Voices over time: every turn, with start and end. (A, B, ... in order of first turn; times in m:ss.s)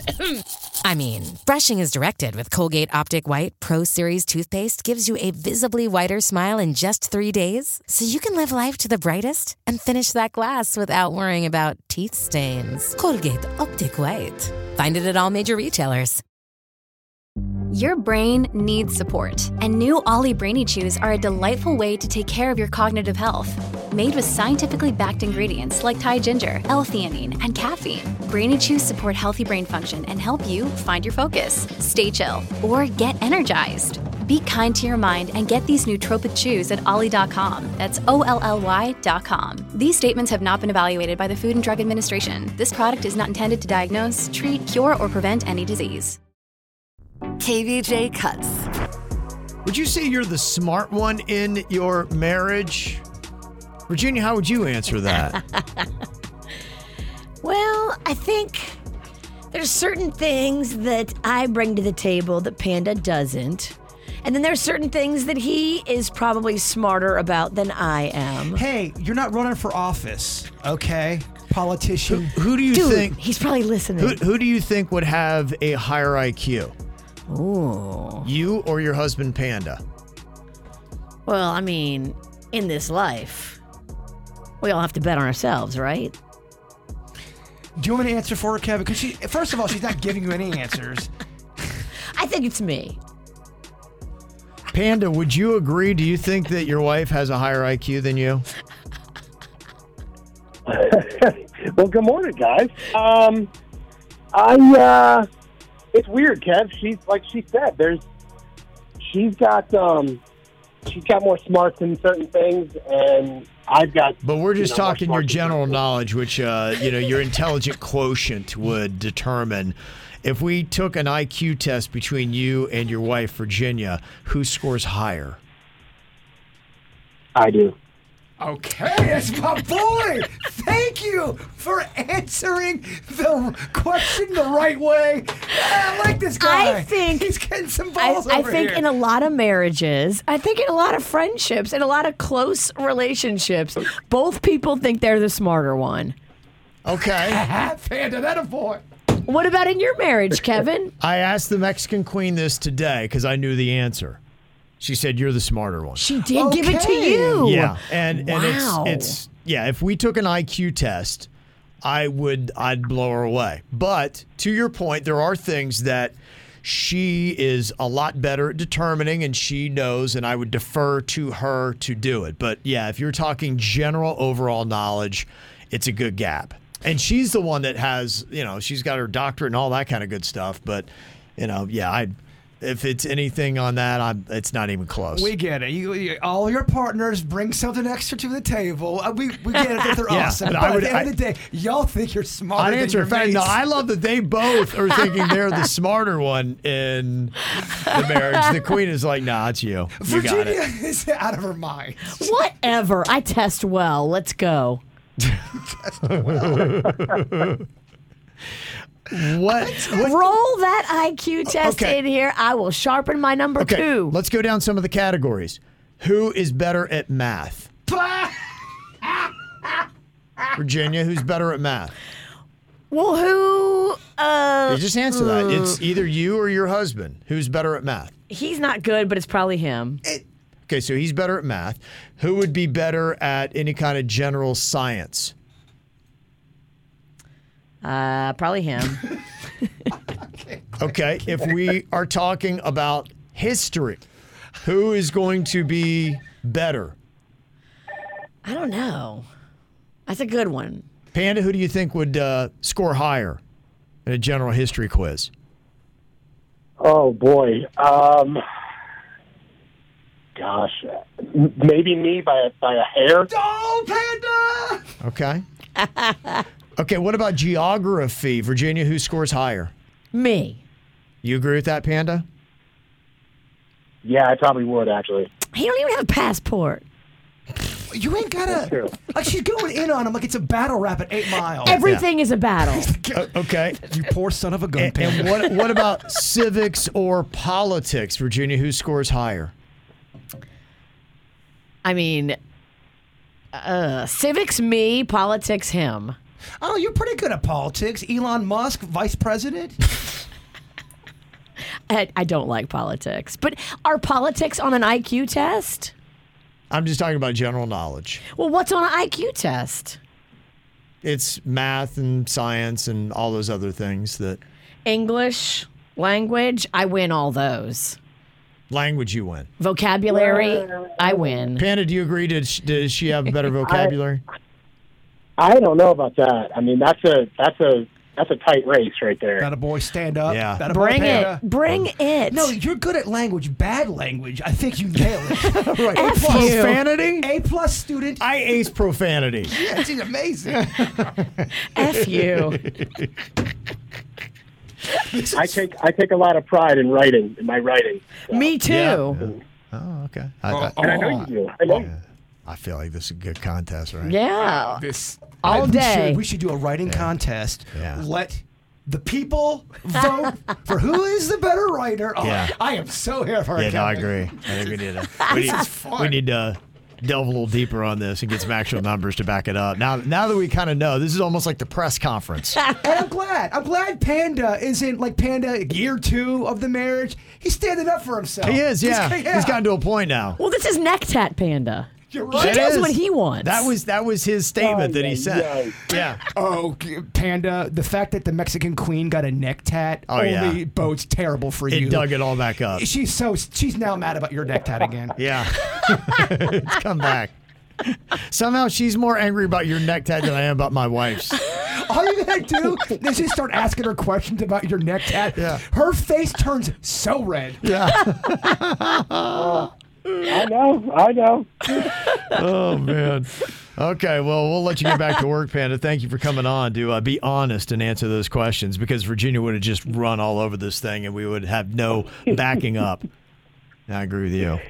0:00.9-0:01.4 A
0:01.5-0:08.0 B
0:08.8-0:10.8 B
0:11.0-0:11.9 A
0:11.9-0:16.2 B
0:17.7-0:46.2 C
0:47.4-0:48.6 A
0:49.6-0:53.0 D
0:53.9-0:55.4 D
0:57.4-0:58.8 A
0:59.5-1:08.6 A
1:08.5-1:12.4 E
1:12.1-1:13.2 D
1:12.7-1:14.2 A
1:14.0-1:16.7 D
1:17.3-1:18.3 A
1:18.2-1:19.8 D
1:21.2-1:23.6 A
1:24.6-1:26.1 A
1:27.8-1:31.1 E
1:32.1-1:33.0 A
1:34.7-1:38.4 D
1:40.7-1:43.5 F
1:44.3-1:45.3 F
1:45.9-1:48.0 F
1:49.0-1:50.2 F
1:50.8-1:55.8 F
1:54.2-2:05.4 D
2:07.3-2:07.8 F
2:08.4-2:18.8 E
2:16.4-2:17.3 A
2:18.0-2:26.2 A
2:26.8-2:27.4 D
2:27.3-2:28.8 E
2:29.2-2:30.9 A
2:31.0-2:34.2 D
2:34.8-2:36.1 D
2:35.9-2:39.2 A
2:36.3-2:37.4 E
2:37.4-2:41.3 D
2:41.8-3:05.3 D
3:05.1-3:13.6 E
3:10.1-3:11.1 D
3:12.6-3:20.6 D
3:20.0-3:22.2 E
3:22.2-3:24.8 A
3:26.0-3:27.6 D
3:29.1-3:30.3 D
3:29.8-3:34.2 A
3:31.5-3:32.0 D
3:33.6-3:37.7 D
3:37.9-3:38.4 E
3:40.6-3:41.9 D
3:42.9-3:45.8 A
3:44.7-3:48.1 D
3:48.3-3:50.0 A
3:50.7-3:55.3 D
3:57.8-3:59.0 A
4:00.8-4:04.0 D
4:04.6-4:06.9 D
4:08.4-4:09.3 A
4:10.0-4:10.8 A
4:11.1-4:13.4 D
4:14.0-4:15.3 D
4:16.8-4:18.4 F
4:20.4-4:23.3 F
4:23.3-4:24.9 E
4:25.0-4:25.4 D
4:26.0-4:26.3 A
4:26.8-4:29.7 D
4:30.1-4:30.6 A
4:31.2-4:32.2 D
4:34.0-4:35.3 F
4:35.5-4:36.8 A
4:37.7-4:41.8 E
4:38.4-4:38.9 F
4:41.6-4:42.9 A
4:41.6-4:42.0 D
4:42.7-4:43.2 E
4:43.1-4:43.8 D
4:43.8-4:45.6 E
4:44.7-4:49.5 D
4:51.8-4:52.4 A
4:53.5-4:56.2 A
4:56.6-4:59.8 E
5:01.9-5:05.9 A
5:06.7-5:08.2 D
5:08.3-5:10.0 A
5:11.0-5:14.4 D
5:14.8-5:18.0 A
5:18.7-5:19.5 D
5:19.6-5:21.6 A
5:20.2-5:20.8 F
5:21.6-5:24.2 D
5:23.6-5:23.9 F
5:25.4-5:29.5 F
5:29.4-5:31.4 E
5:30.3-5:31.9 D
5:30.6-5:32.5 A
5:32.3-5:36.7 E
5:35.4-5:37.3 D
5:35.9-5:36.8 A
5:37.2-5:38.2 E
5:38.2-5:39.6 D
5:39.5-5:40.9 E
5:40.8-5:41.5 D
5:41.7-5:42.6 A
5:42.3-5:43.1 D
5:45.1-5:45.5 E
5:45.3-5:48.6 F
5:48.3-5:49.3 A
5:48.6-5:54.2 D
5:50.5-5:51.1 E
5:50.8-5:51.9 F
5:54.0-5:54.8 A
5:54.5-6:04.5 E
5:55.4-5:56.2 A
5:57.7-5:58.0 D
6:02.2-6:02.5 D
6:03.6-6:12.6 D
6:05.2-6:06.1 E
6:12.6-6:12.9 A
6:12.8-6:19.6 E
6:18.4-6:20.4 D
6:20.4-6:23.7 A
6:22.1-6:22.7 E
6:22.3-6:26.2 D
6:24.6-6:25.8 F
6:26.3-6:32.2 E
6:30.1-6:30.6 D
6:31.7-6:32.8 D
6:32.7-6:35.2 E
6:35.2-6:37.3 D
6:37.9-6:41.4 D
6:41.6-6:47.6 E
6:45.3-6:45.6 D
6:47.6-6:49.6 D
6:49.3-6:49.7 F
6:50.2-6:51.9 F
6:51.8-7:03.0 D
7:03.9-7:04.6 D